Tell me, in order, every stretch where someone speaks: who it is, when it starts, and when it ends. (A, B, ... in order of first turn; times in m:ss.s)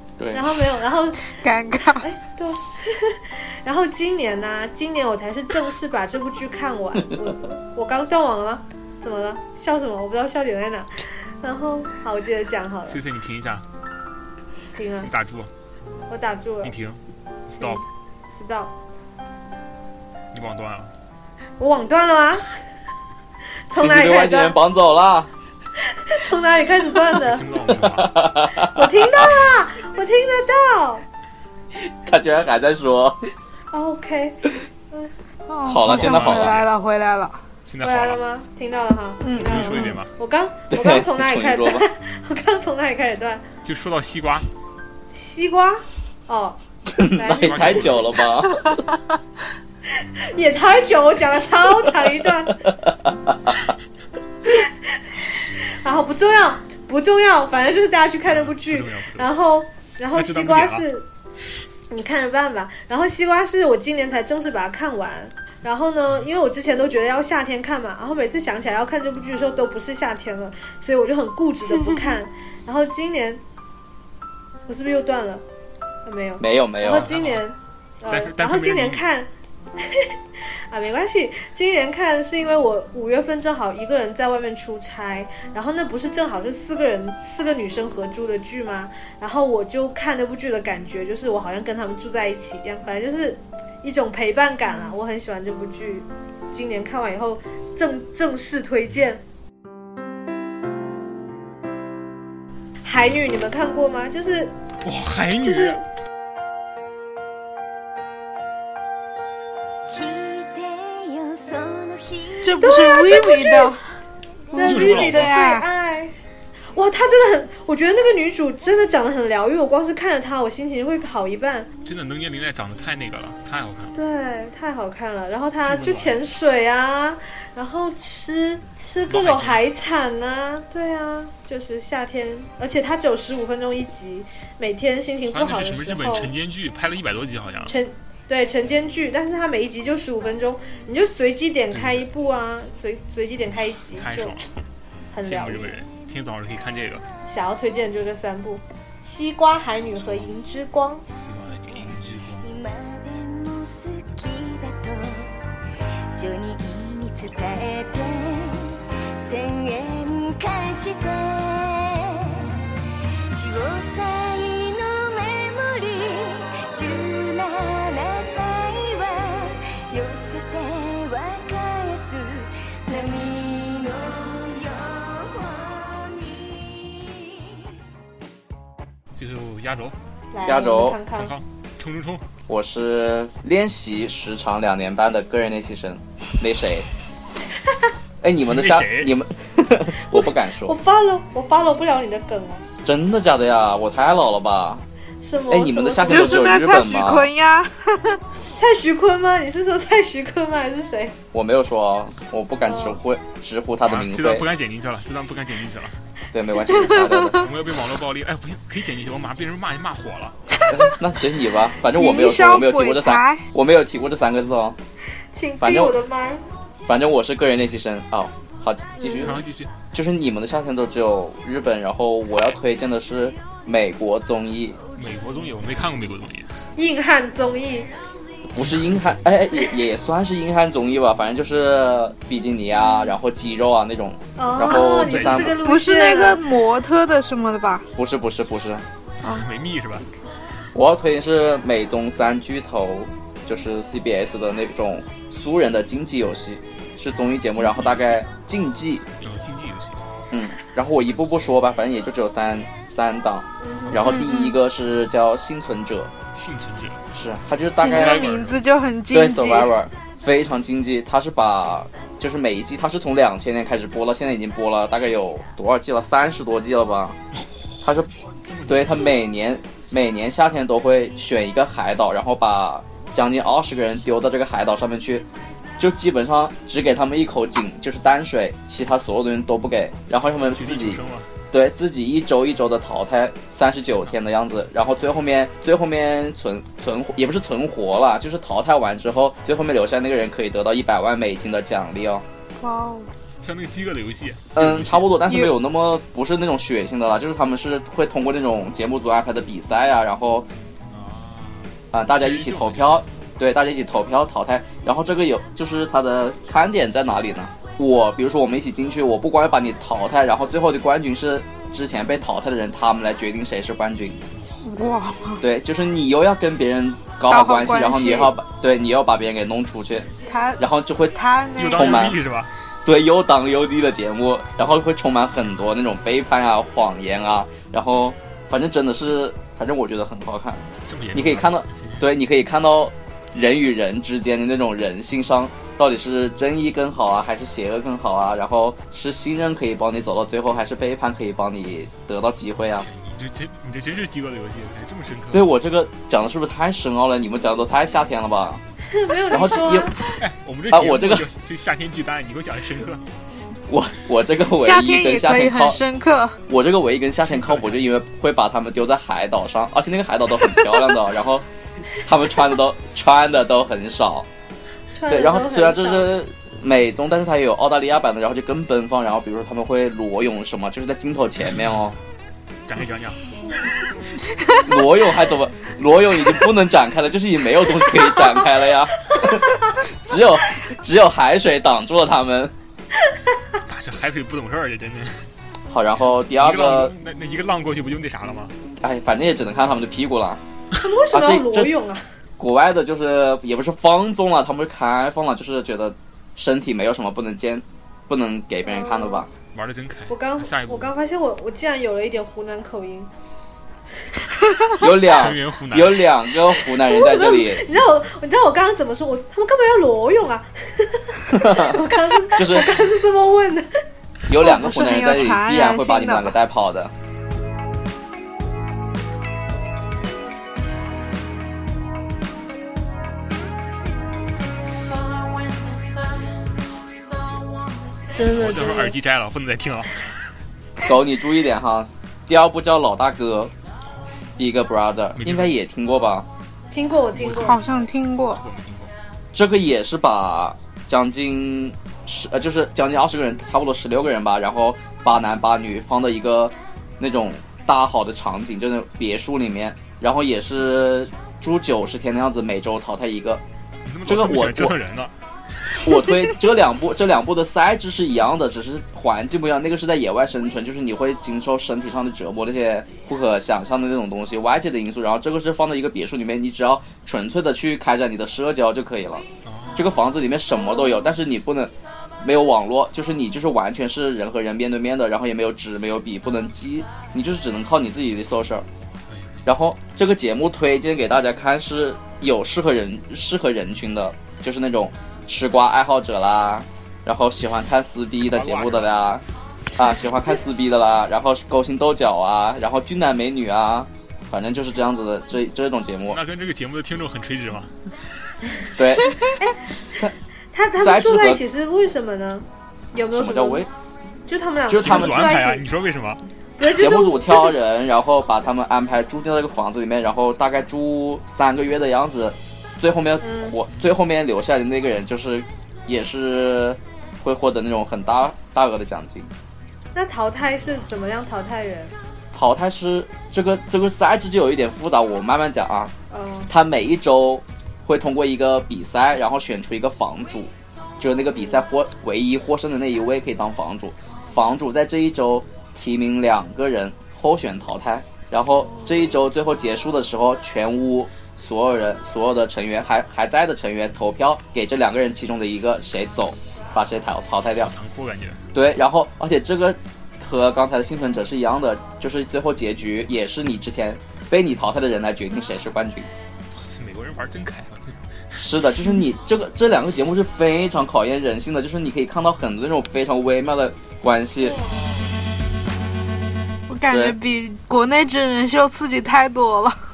0:00.2-0:00.6 A
0:00.3-0:01.3 B
0:01.4-0:02.0 C
0:02.0-0:13.0 B
0:12.9-0:13.7 D
0:14.7-0:15.1 B
0:15.0-0:15.5 D
0:16.1-0:16.8 B
0:16.6-0:17.8 D
0:17.6-0:18.7 B
0:20.3-0:20.9 D
0:21.6-0:22.4 B
0:23.7-0:24.6 B
0:23.8-0:25.3 A
0:26.0-0:27.5 B
0:27.1-0:28.2 D
0:27.8-0:29.2 A
0:28.6-0:31.0 B
0:31.8-0:33.3 A
0:33.7-0:35.1 B
0:35.5-0:37.4 C
0:35.6-0:36.6 A
0:35.8-0:36.7 D
0:37.7-0:38.2 D
0:37.8-0:43.4 B
0:39.2-0:40.0 C
0:39.3-0:40.1 D
0:40.7-0:41.8 A
0:43.6-0:44.5 D
0:45.1-0:48.0 B
0:46.9-0:48.8 A
0:47.3-0:48.2 D
0:50.0-0:52.6 B
0:52.9-0:53.5 A
0:55.8-1:01.1 B
0:58.3-0:59.3 D
1:00.1-1:00.8 D
1:01.9-1:13.4 B
1:14.7-1:15.4 B
1:16.0-1:20.1 B
1:16.4-1:17.1 A
1:16.8-1:17.4 D
1:18.1-1:19.0 D
1:20.7-1:39.2 B
1:42.8-1:44.5 B
1:44.8-1:45.8 D
1:45.4-1:45.8 B
1:49.9-1:52.8 E
1:52.4-1:54.0 C
1:52.6-1:53.8 B
1:54.5-1:55.6 C
1:54.6-1:56.1 B
1:54.6-1:55.4 D
1:56.7-2:01.7 B
2:01.8-2:04.0 D
2:04.0-2:16.3 B
2:05.6-2:06.2 D
2:09.1-2:09.6 D
2:15.3-2:17.8 D
2:17.7-2:24.4 B
2:21.7-2:22.1 D
2:24.0-2:24.5 D
2:25.1-2:25.8 B
2:25.2-2:27.0 D
2:27.2-2:31.0 B
2:31.1-2:32.5 D
2:31.7-2:35.5 E
2:36.1-2:42.7 E
2:43.3-2:57.7 E
2:59.1-3:00.0 D
3:00.3-3:01.4 B
3:00.4-3:01.0 A
3:01.1-3:02.2 D
3:02.5-3:06.9 A
3:08.2-3:10.8 A
3:08.4-3:09.1 D
3:10.7-3:12.8 B
3:12.8-3:14.8 A
3:15.2-3:16.5 B
3:15.5-3:17.3 A
3:16.1-3:18.2 C
3:18.6-3:21.2 B
3:21.3-3:24.5 A
3:22.7-3:23.0 B
3:23.8-3:26.0 D
3:26.3-3:27.5 A
3:27.3-3:30.4 D
3:30.7-3:34.8 A
3:31.9-3:33.4 C
3:35.3-3:36.4 B
3:35.6-3:36.0 A
3:36.9-3:39.4 A
3:39.0-3:39.3 B
3:39.1-3:39.7 D
3:39.9-3:44.8 A
3:45.0-3:46.6 D
3:46.8-3:47.9 B
3:48.5-3:55.6 A
3:48.6-3:49.2 D
3:54.4-3:56.4 B
3:54.9-3:55.5 D
3:55.6-3:57.9 C
3:58.0-3:58.9 A
3:59.2-4:00.1 D
4:00.7-4:09.1 A
4:07.5-4:08.3 D
4:09.2-4:10.1 D
4:10.3-4:16.1 A
4:13.6-4:14.0 B
4:14.0-4:14.6 C
4:16.3-4:17.0 D
4:17.1-4:18.3 A
4:17.8-4:18.6 D
4:17.8-4:19.7 C
4:19.1-4:27.2 A
4:27.4-4:29.1 D
4:27.8-4:28.1 A
4:28.7-4:35.3 A
4:35.8-4:52.2 A
4:40.3-4:41.3 D
4:52.6-4:53.1 C
4:53.4-4:55.2 D
4:54.5-5:00.5 A
5:00.9-5:03.1 D
5:01.9-5:14.2 A
5:14.6-5:15.4 C
5:15.4-5:21.2 A
5:17.3-5:18.3 C
5:20.3-5:22.2 C
5:21.6-5:22.5 D
5:21.7-5:22.2 A
5:22.8-5:30.6 A
5:30.9-5:32.1 D
5:31.1-5:42.9 A
5:42.8-5:45.5 D
5:45.3-5:48.6 A
5:48.9-5:50.0 B
5:49.3-5:50.0 A
5:50.1-5:53.0 D
5:50.7-5:51.3 A
5:53.7-5:55.8 A
5:54.5-5:56.4 C
5:56.5-6:01.5 A
5:57.2-5:57.9 D
6:02.0-6:04.3 A
6:05.0-6:06.2 B
6:05.1-6:12.0 A
6:11.4-6:12.0 D
6:12.7-6:13.2 D
6:14.6-6:22.5 A
6:23.6-6:25.3 D
6:25.7-6:26.9 A
6:26.0-6:28.6 D
6:28.8-6:30.4 A
6:30.8-6:32.0 B
6:31.1-6:31.7 A
6:32.4-6:39.3 A
6:38.7-6:39.2 B
6:39.5-6:40.9 D
6:40.1-6:43.1 B
6:44.8-6:47.7 A
6:44.8-6:46.1 D
6:46.8-6:53.7 B
6:51.3-6:52.8 A
6:54.3-6:56.9 A
6:54.3-6:56.4 C
7:08.2-7:08.9 B
7:08.2-7:10.4 D
7:10.8-7:13.5 A
7:14.4-7:16.3 A
7:15.2-7:15.6 D
7:16.7-7:17.6 B
7:17.1-7:19.0 D
7:17.3-7:18.4 C
7:19.3-7:33.4 A
7:33.9-7:35.8 D
7:34.1-7:34.8 A
7:35.8-7:58.7 A
7:49.4-7:50.0 D
7:59.1-7:59.4 D
7:59.5-8:09.2 A
8:08.3-8:09.1 D
8:09.8-8:16.2 A
8:16.1-8:18.4 D
8:18.7-8:19.4 A
8:19.9-8:20.2 A
8:20.5-8:23.7 B
8:20.8-8:21.4 A
8:23.1-8:23.7 A
8:24.3-8:25.6 B
8:24.7-8:25.4 A
8:24.8-8:26.2 D
8:26.6-8:27.5 B
8:26.6-8:39.3 A
8:33.2-8:33.6 B
8:39.9-8:41.9 B
8:42.3-8:45.9 A
8:46.1-8:46.5 B
8:46.5-9:07.7 A
9:07.6-9:08.4 D
9:08.5-9:16.1 A
9:16.5-9:18.5 D
9:18.4-9:24.6 A
9:26.7-9:29.8 C
9:26.9-9:27.2 A